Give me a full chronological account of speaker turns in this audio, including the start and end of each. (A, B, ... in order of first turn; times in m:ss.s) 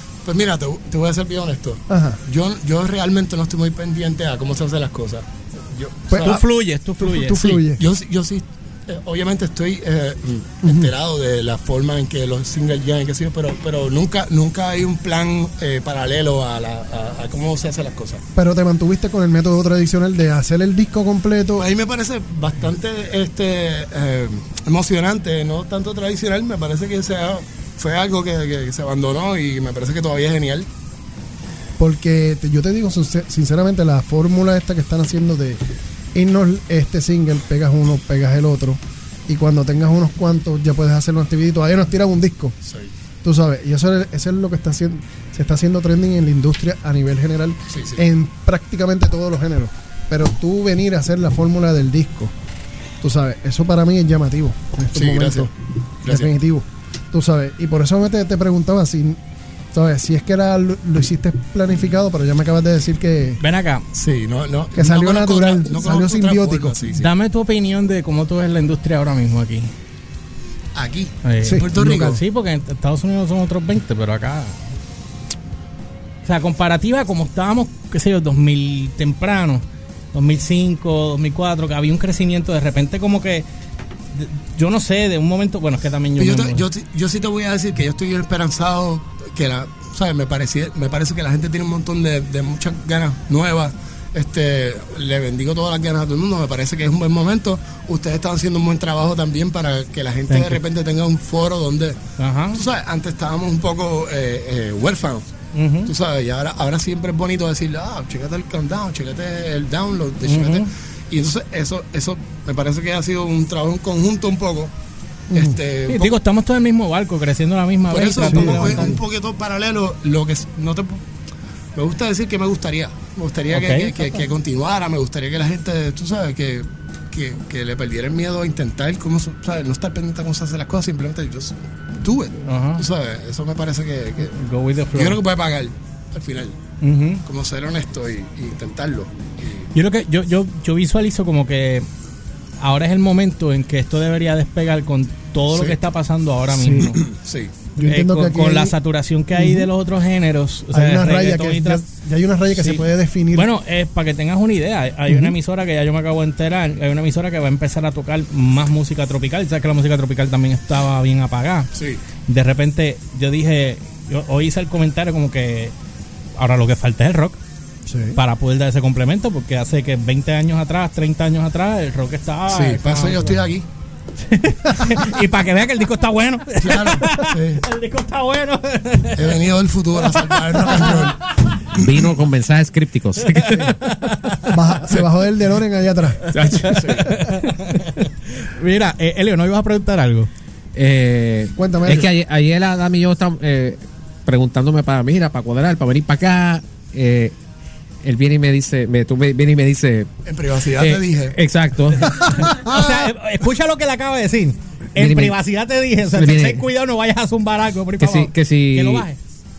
0:00.2-0:06.4 A
0:01.9-0:02.2 B
0:06.1-0:06.4 B
0:06.1-0:07.5 C
0:07.0-0:07.8 B
0:07.3-0:18.2 A
0:10.6-0:10.9 B
0:18.3-0:21.6 B
0:21.6-0:30.7 A
0:31.8-0:35.6 B
0:36.1-0:42.6 B
0:42.6-0:42.9 A
0:43.2-0:52.3 B
0:47.7-0:48.0 A
0:53.0-0:55.5 B
0:54.9-0:55.5 A
0:56.0-0:56.3 A
0:56.0-0:59.2 B
0:59.7-1:03.4 B
1:03.4-1:03.8 C
1:03.9-1:07.1 A
1:04.8-1:06.9 B
1:06.9-1:09.7 C
1:10.7-1:12.2 A
1:11.2-1:14.6 C
1:11.4-1:12.2 B
1:16.2-1:23.5 C
1:24.1-1:26.6 C
1:26.2-1:42.0 A
1:40.3-1:40.6 C
1:42.2-1:42.6 C
1:42.5-1:45.3 A
1:45.5-1:45.9 C
1:45.8-1:54.7 A
1:50.2-1:50.7 C
1:55.3-1:55.6 B
1:55.3-1:56.2 A
1:55.9-1:59.0 C
1:57.9-2:01.0 A
1:58.3-1:59.0 B
2:01.7-2:14.4 A
2:03.5-2:03.9 C
2:12.4-2:12.8 C
2:14.3-2:15.2 C
2:14.9-2:16.6 A
2:16.8-2:17.2 C
2:17.2-2:19.7 A
2:19.7-2:21.9 C
2:22.6-2:27.0 C
2:25.5-2:25.8 A
2:26.6-2:27.0 B
2:26.6-2:27.6 A
2:27.8-2:28.7 B
2:27.8-2:31.8 C
2:29.3-2:29.7 B
2:30.7-2:33.5 B
2:32.6-2:41.7 C
2:35.1-2:35.3 B
2:41.7-2:42.0 A
2:42.2-2:45.7 C
2:46.4-2:47.4 C
2:47.9-2:48.2 B
2:48.1-2:53.3 C
2:52.5-2:53.7 A
2:54.2-2:59.4 C
2:56.6-2:57.6 A
2:59.2-3:01.2 A
3:00.0-3:01.4 C
3:01.8-3:03.6 D
3:01.8-3:02.0 A
3:03.2-3:04.6 C
3:04.5-3:06.2 B
3:06.2-3:10.3 C
3:06.4-3:07.2 A
3:10.7-3:17.3 D
3:11.5-3:12.1 B
3:18.0-3:20.1 D
3:20.2-3:21.4 A
3:20.8-3:22.1 D
3:22.2-3:23.1 B
3:22.2-3:29.2 C
3:25.0-3:25.4 D
3:26.0-3:26.6 D
3:28.0-3:29.0 D